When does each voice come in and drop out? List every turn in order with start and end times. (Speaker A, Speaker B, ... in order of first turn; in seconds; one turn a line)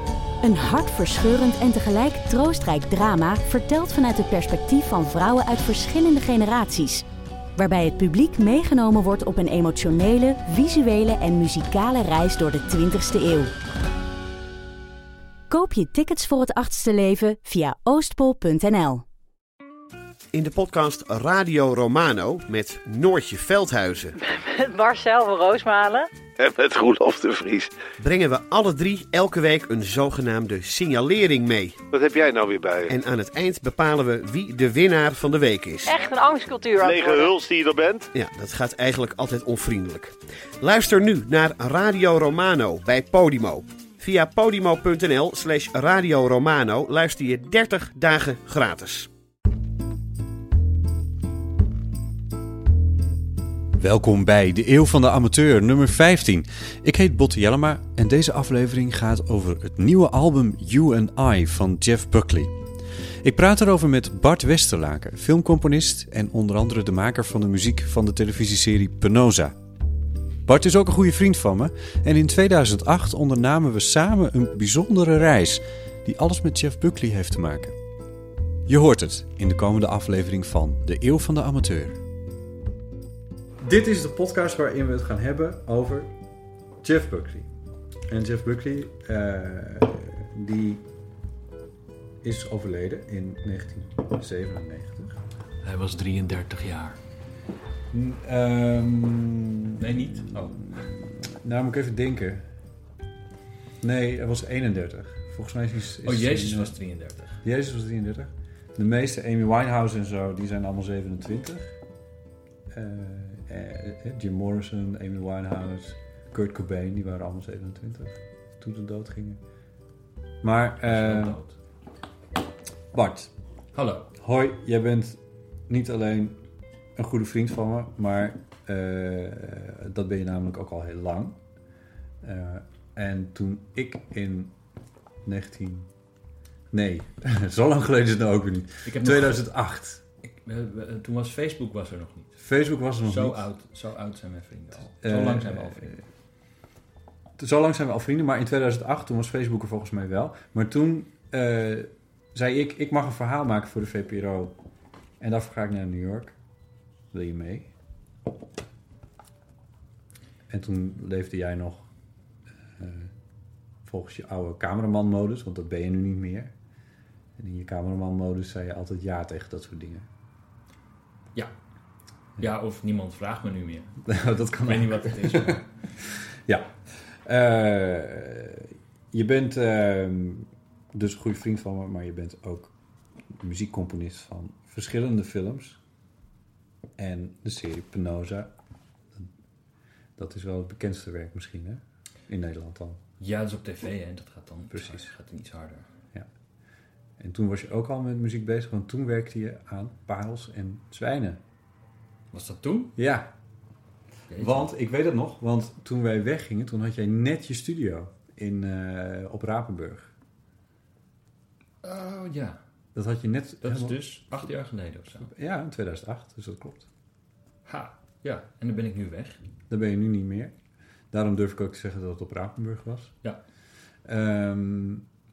Speaker A: 0.4-7.0
Speaker A: 7.6-13.5
Speaker A: 15.5-19.0
Speaker B: 20.3-24.2
Speaker C: 24.2-26.1
Speaker D: 26.4-27.7
Speaker B: 28.0-31.8
Speaker D: 31.9-32.9
Speaker B: 32.9-36.0
Speaker C: 35.9-37.3
Speaker D: 36.8-38.1
Speaker B: 38.1-49.1
Speaker E: 53.7-62.6
Speaker E: 63.2-69.6
Speaker E: 70.5-77.8
Speaker E: 78.7-82.0
Speaker E: 83.6-86.1
Speaker E: 86.8-87.5
Speaker E: 88.1-90.8
Speaker E: 92.2-95.2
Speaker F: 95.6-97.0
Speaker E: 97.9-102.5
Speaker F: 99.8-100.8
Speaker E: 103.8-106.7
Speaker F: 106.0-107.4
Speaker E: 107.4-111.8
Speaker E: 112.7-119.4
Speaker E: 120.4-121.4
Speaker F: 120.8-121.5
Speaker E: 122.9-123.3
Speaker F: 123.7-124.1
Speaker E: 124.2-126.4
Speaker E: 127.0-131.4
Speaker E: 132.2-134.5
Speaker E: 135.2-135.9
Speaker E: 136.7-140.0
Speaker F: 138.8-139.5
Speaker F: 140.2-142.3
Speaker E: 142.4-143.4
Speaker F: 143.0-145.9
Speaker E: 145.0-146.0
Speaker E: 147.4-154.5
Speaker E: 155.2-156.3
Speaker E: 157.1-157.7
Speaker E: 160.5-161.9
Speaker E: 162.8-163.1
Speaker E: 163.8-166.5
Speaker E: 167.4-170.1
Speaker F: 172.4-174.0
Speaker E: 174.1-182.7
Speaker F: 174.6-175.7
Speaker E: 183.3-185.8
Speaker E: 187.0-188.5
Speaker E: 190.2-193.0
Speaker F: 193.2-195.9
Speaker E: 194.7-195.1
Speaker E: 197.2-201.4
Speaker F: 202.3-202.9
Speaker E: 203.0-203.3
Speaker F: 204.3-204.7
Speaker E: 204.3-210.1
Speaker F: 211.8-212.6
Speaker E: 212.9-214.3
Speaker F: 213.6-215.3
Speaker E: 215.2-216.9
Speaker F: 217.7-219.4
Speaker E: 219.7-220.5
Speaker E: 221.1-223.1
Speaker E: 224.0-225.1